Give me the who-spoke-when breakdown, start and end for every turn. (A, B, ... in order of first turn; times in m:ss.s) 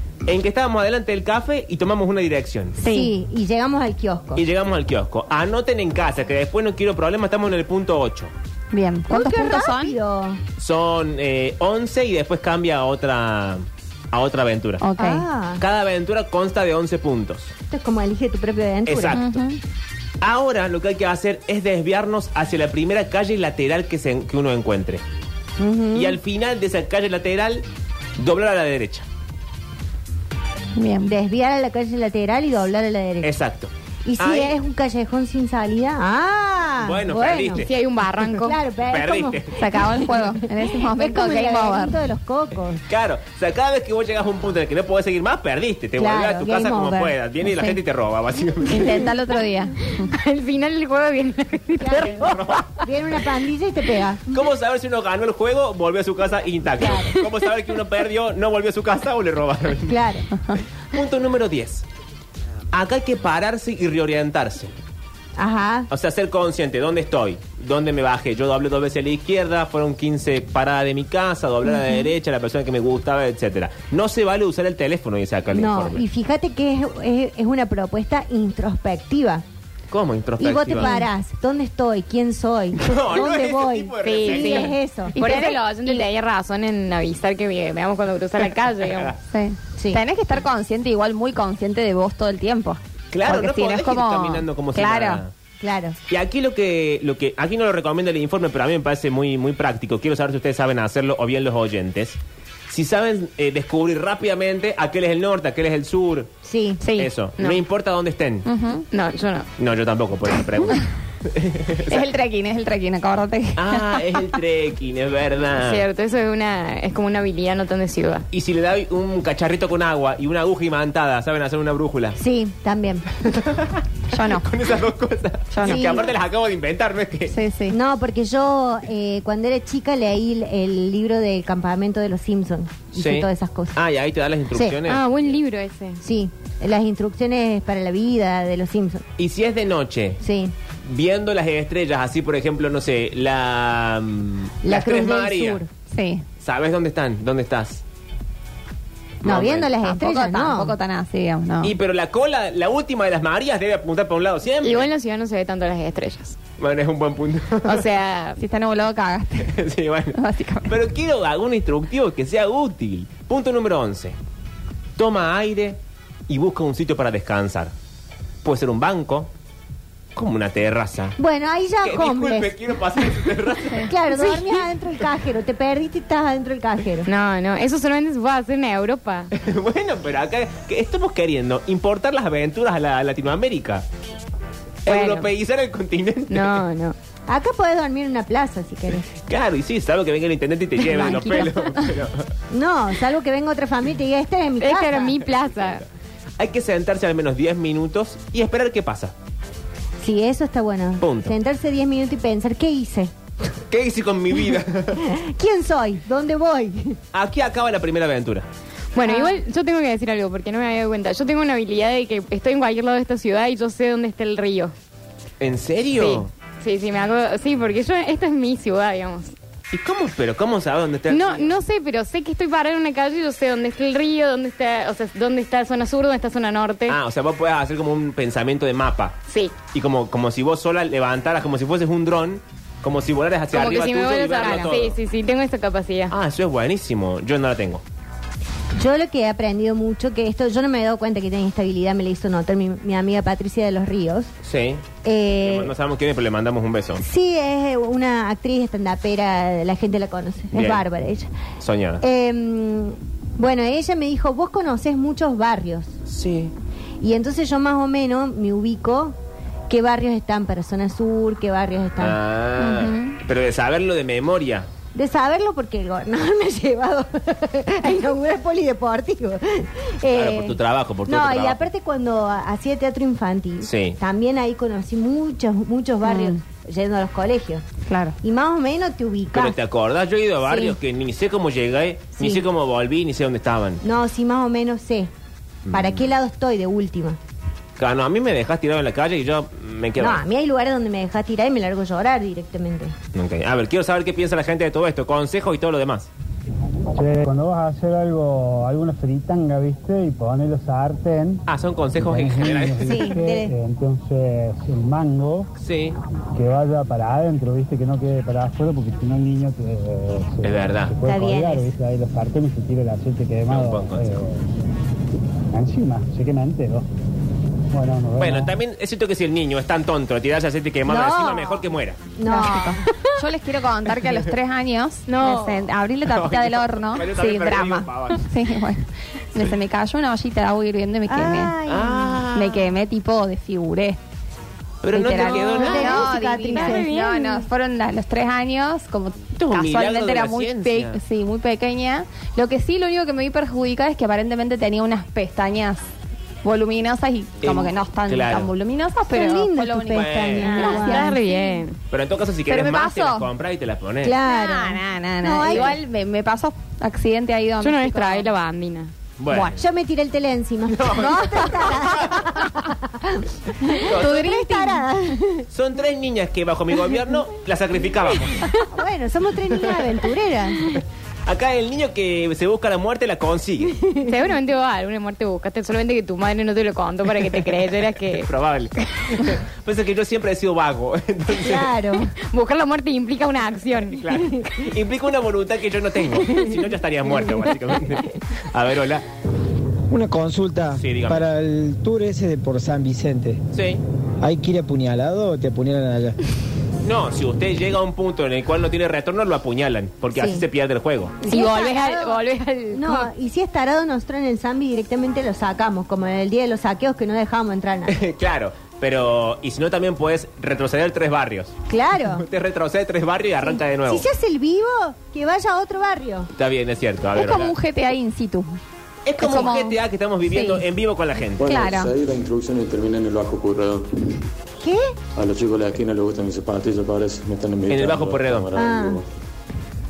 0:00.2-0:02.8 A
0:02.8-0:03.1 B
0:02.8-0:04.4 C
0:04.4-0:08.3 A
0:08.7-0:10.0 B
0:09.1-0:10.4 C
0:10.6-0:14.8 A
0:14.8-0:15.2 B
0:15.0-0:15.6 C
0:15.6-0:17.5 A
0:17.7-0:19.2 C
0:18.9-0:19.4 A
0:19.1-0:19.6 B
0:20.2-0:25.0 A
0:25.6-0:26.2 C
0:25.9-0:27.6 A
0:28.2-0:29.1 A
0:30.8-0:31.1 B
0:31.0-0:33.3 C
0:33.2-0:34.5 A
0:34.0-0:37.6 C
0:36.8-0:37.7 A
0:37.6-0:38.6 D
0:38.4-0:42.8 C
0:38.9-0:39.5 A
0:39.6-0:42.0 B
0:42.9-0:49.0 A
0:46.0-0:47.1 C
0:47.4-0:47.8 B
0:48.7-0:50.1 B
0:48.8-0:49.1 C
0:50.1-0:52.2 D
0:51.8-0:54.2 C
0:52.0-0:52.7 A
0:54.3-1:00.0 A
0:56.8-0:57.2 C
0:59.9-1:00.2 C
1:00.9-1:01.8 A
1:02.7-1:04.7 A
1:05.4-1:05.9 C
1:05.9-1:16.0 A
1:11.7-1:12.0 C
1:15.5-1:19.4 C
1:19.9-1:20.9 A
1:20.4-1:25.2 C
1:22.8-1:24.7 A
1:24.0-1:29.2 D
1:25.1-1:26.0 B
1:28.8-1:29.1 A
1:29.3-1:35.2 B
1:29.8-1:30.0 C
1:33.1-1:35.3 A
1:35.6-1:36.0 C
1:36.1-1:46.3 A
1:46.4-1:46.8 C
1:46.8-1:47.1 B
1:47.0-1:48.4 A
1:48.4-1:48.8 B
1:48.9-1:49.5 D
1:49.6-1:52.1 A
1:51.9-1:54.1 B
1:53.6-1:55.8 A
1:55.6-1:58.2 D
1:58.3-2:02.2 A
2:02.2-2:03.0 C
2:03.2-2:07.3 A
2:04.1-2:04.4 B
2:05.5-2:06.0 B
2:05.6-2:06.1 C
2:07.3-2:07.8 B
2:07.7-2:13.7 C
2:12.9-2:15.0 A
2:14.8-2:16.0 D
2:16.0-2:19.0 C
2:19.2-2:20.2 A
2:20.2-2:20.5 C
2:20.8-2:25.6 A
2:24.6-2:25.7 C
2:25.9-2:26.2 B
2:26.4-2:27.8 A
2:29.2-2:29.7 A
2:29.2-2:30.7 C
2:29.8-2:31.7 B
2:31.6-2:34.9 A
2:34.6-2:36.4 D
2:36.6-2:37.8 A
2:37.6-2:38.4 D
2:38.4-2:39.5 B
2:39.4-2:44.2 A
2:40.1-2:40.7 B
2:45.0-2:47.7 A
2:48.4-2:49.3 A
2:50.2-2:51.2 A
2:51.2-2:52.8 C
2:51.8-2:53.9 A
2:53.8-2:57.1 C
2:57.0-2:59.3 D
2:59.3-3:03.8 A
3:04.8-3:06.6 A
3:04.8-3:05.3 D
3:06.3-3:07.0 D
3:07.3-3:09.0 C
3:09.1-3:12.3 A
3:10.9-3:11.5 B
3:10.9-3:11.5 D
3:12.5-3:15.2 C
3:14.6-3:15.8 D
3:15.2-3:15.8 A
3:16.4-3:19.1 A
3:20.0-3:23.1 C
3:21.0-3:21.3 A
3:23.7-3:25.0 A
3:25.0-3:27.0 C
3:27.1-3:28.5 A
3:28.9-3:34.7 D
3:29.0-3:29.4 C
3:35.4-3:36.3 A
3:36.0-3:39.3 D
3:39.7-3:41.5 A
3:41.1-3:47.0 D
3:46.9-3:49.2 A
3:49.3-3:49.6 D
3:49.7-3:55.0 A
3:53.5-3:56.1 D
3:56.1-3:57.8 A
3:58.8-4:04.3 C
4:04.4-4:07.0 A
4:05.0-4:05.7 C
4:07.0-4:11.3 C
4:10.5-4:10.8 A
4:11.6-4:12.0 A
4:12.0-4:15.9 C
4:16.0-4:16.5 A
4:17.0-4:19.2 C
4:19.7-4:22.2 C
4:22.0-4:24.7 A
4:22.6-4:23.2 B
4:24.9-4:30.5 C
4:30.1-4:31.7 A
4:31.1-4:37.6 C
4:33.6-4:34.0 A
4:36.0-4:36.4 B
4:37.8-4:38.2 B
4:38.2-4:39.6 C
4:39.3-4:43.8 A
4:40.4-4:40.7 C
4:42.2-4:42.4 C
4:43.8-4:45.1 C
4:45.6-4:46.0 A
4:45.7-4:47.2 C
4:47.8-4:50.2 A
4:50.0-4:52.9 C
4:53.1-4:56.1 A
4:56.9-5:01.4 E
5:01.5-5:03.1 A
5:01.9-5:05.5 E
5:02.8-5:03.5 C
5:05.6-5:06.0 A
5:06.3-5:14.5 E
5:10.4-5:11.0 A
5:11.0-5:11.7 C
5:13.5-5:14.2 A
5:15.5-5:16.8 E
5:17.7-5:18.5 E
5:18.2-5:22.0 A
5:20.9-5:21.6 C
5:22.2-5:23.1 C
5:22.3-5:31.6 B
5:25.1-5:25.5 D
5:26.0-5:28.2 A
5:31.1-5:32.2 C
5:31.6-5:32.7 A
5:32.3-5:34.0 B
5:34.8-5:36.1 A
5:34.9-5:45.8 B
5:35.2-5:36.9 C
5:35.8-5:37.5 D
5:39.4-5:41.0 A
5:46.4-5:51.5 B
5:47.4-5:48.5 A
5:49.0-5:51.4 C
5:49.9-5:50.6 A
5:50.5-5:51.7 D
5:51.9-5:54.1 A
5:52.5-5:53.3 B
5:54.0-5:55.8 C
5:54.2-5:58.3 B
5:57.6-5:58.9 D
5:59.2-5:59.6 A
5:59.3-5:59.6 B
5:59.6-6:05.4 C
6:00.7-6:02.3 A
6:03.8-6:04.2 A
6:04.0-6:04.8 B
6:05.5-6:08.4 A
6:08.4-6:10.8 C
6:09.6-6:10.0 A
6:10.6-6:13.7 A
6:13.8-6:14.1 C
6:14.0-6:18.3 D
6:18.1-6:21.7 A
6:21.4-6:22.1 C
6:22.2-6:24.0 D
6:23.9-6:29.0 A
6:26.2-6:26.5 C
6:29.9-6:33.4 F
6:30.8-6:31.2 A
6:33.5-6:33.8 A
6:34.2-6:36.2 F
6:36.8-6:41.2 A
6:40.1-6:40.4 C
6:41.2-6:47.9 C
6:41.2-6:43.1 D
6:47.9-6:54.0 A
6:51.7-6:52.2 C
6:53.4-6:56.3 C
6:56.4-6:57.5 A
6:57.1-6:58.6 B
6:59.0-7:01.6 A
6:59.2-6:59.7 B
6:59.3-6:59.5 C
7:00.3-7:00.6 B
7:01.4-7:04.2 G
7:01.4-7:01.9 B
7:04.6-7:04.9 C
7:05.2-7:09.1 G
7:07.7-7:08.5 A
7:08.5-7:09.0 C